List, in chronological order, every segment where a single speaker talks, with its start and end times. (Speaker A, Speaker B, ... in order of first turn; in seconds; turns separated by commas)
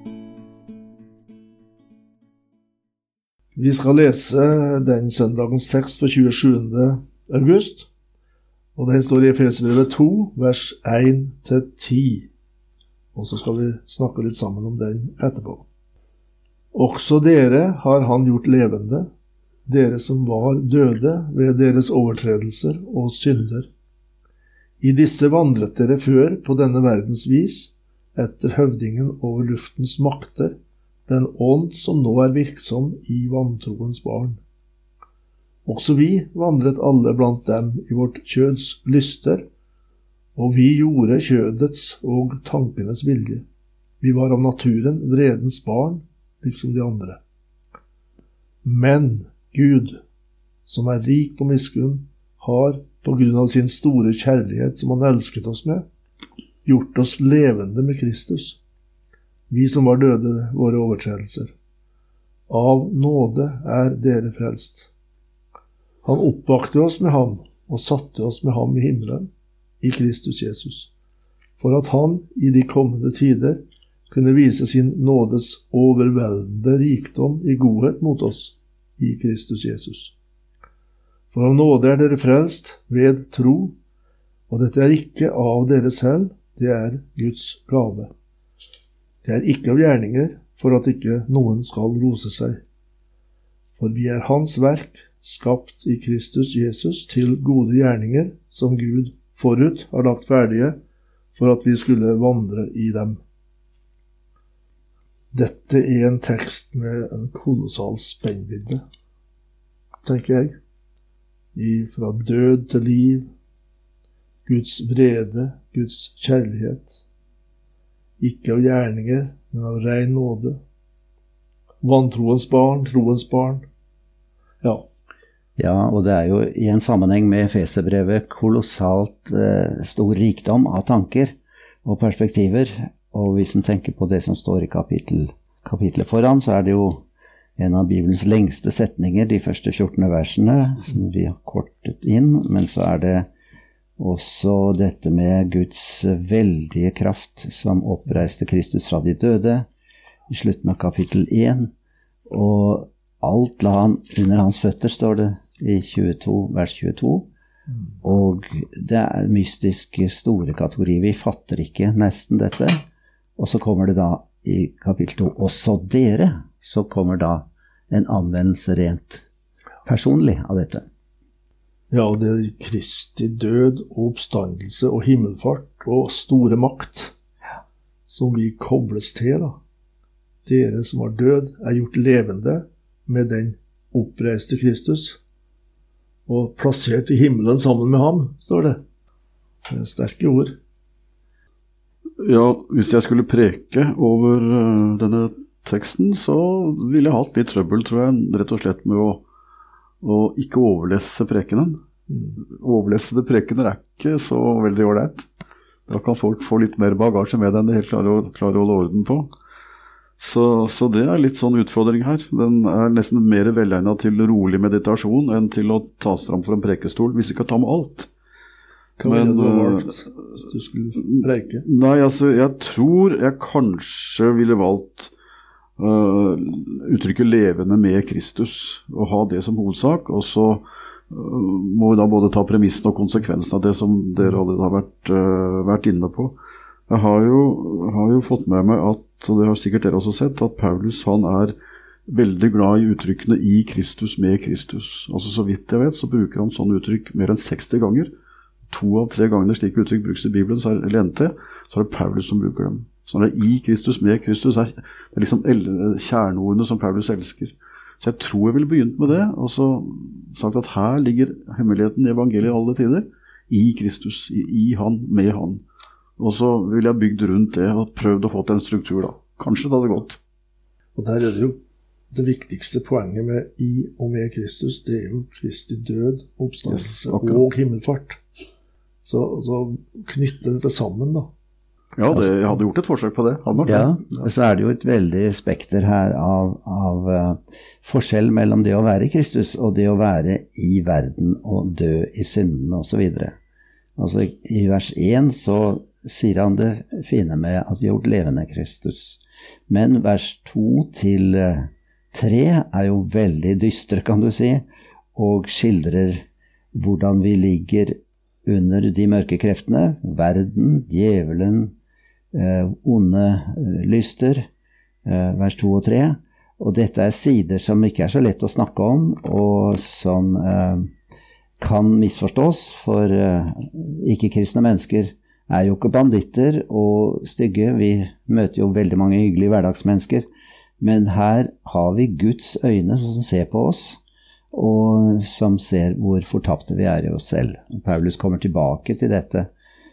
Speaker A: 3.5-7.9, Speaker A: 8.8-12.3, Speaker A: 13.1-15.7, Speaker A: 16.7-19.1, Speaker A: 19.6-23.7, Speaker A: 24.8-34.4, Speaker A: 35.6-39.4, Speaker A: 40.4-43.5, Speaker A: 44.0-47.2, Speaker A: 48.6-50.0, Speaker A: 50.6-55.8, Speaker A: 56.6-58.6, Speaker A: 59.5-61.5, Speaker A: 62.5-64.9, Speaker A: 66.0-69.3, Speaker A: 69.8-70.9, Speaker A: 71.6-80.1, Speaker A: 81.3-83.8, Speaker A: 84.5-88.1, Speaker A: 89.2-92.6, Speaker A: 93.8-100.8, Speaker A: 101.3-103.2, Speaker A: 105.3-108.8, Speaker A: 110.0-110.6, Speaker A: 111.5-113.3, Speaker A: 114.5-117.0, Speaker A: 118.2-120.6, Speaker A: 121.8-123.6, Speaker B: 125.6-137.0, Speaker B: 137.6-143.3, Speaker B: 144.0-149.7, Speaker B: 150.3-151.7, Speaker B: 152.3-157.3, Speaker B: 158.0-162.8, Speaker B: 163.4-169.2, Speaker B: 169.8-170.8, Speaker A: 171.9-177.1, Speaker A: 178.1-179.6, Speaker A: 180.4-185.2, Speaker A: 186.3-188.8, Speaker A: 189.7-190.6, Speaker C: 192.2-199.2, Speaker C: 200.0-201.8, Speaker A: 202.1-202.4, Speaker C: 202.4-205.3, Speaker C: 205.9-209.3, Speaker C: 210.2-218.1, Speaker A: 219.0-221.6, Speaker C: 219.0-220.0, Speaker C: 220.9-225.1, Speaker C: 225.8-236.4, Speaker C: 236.9-241.5, Speaker C: 242.1-248.1, Speaker C: 248.7-265.6, Speaker C: 266.2-270.2, Speaker A: 270.9-271.6, Speaker A: 272.1-278.2, Speaker C: 276.7-277.4, Speaker A: 279.0-281.3, Speaker C: 281.9-283.9, Speaker A: 283.6-284.3, Speaker B: 283.6-293.4, Speaker B: 294.0-311.7, Speaker B: 312.3-314.5, Speaker B: 315.0-320.9, Speaker B: 321.6-330.2, Speaker B: 330.8-334.0, Speaker B: 334.5-339.5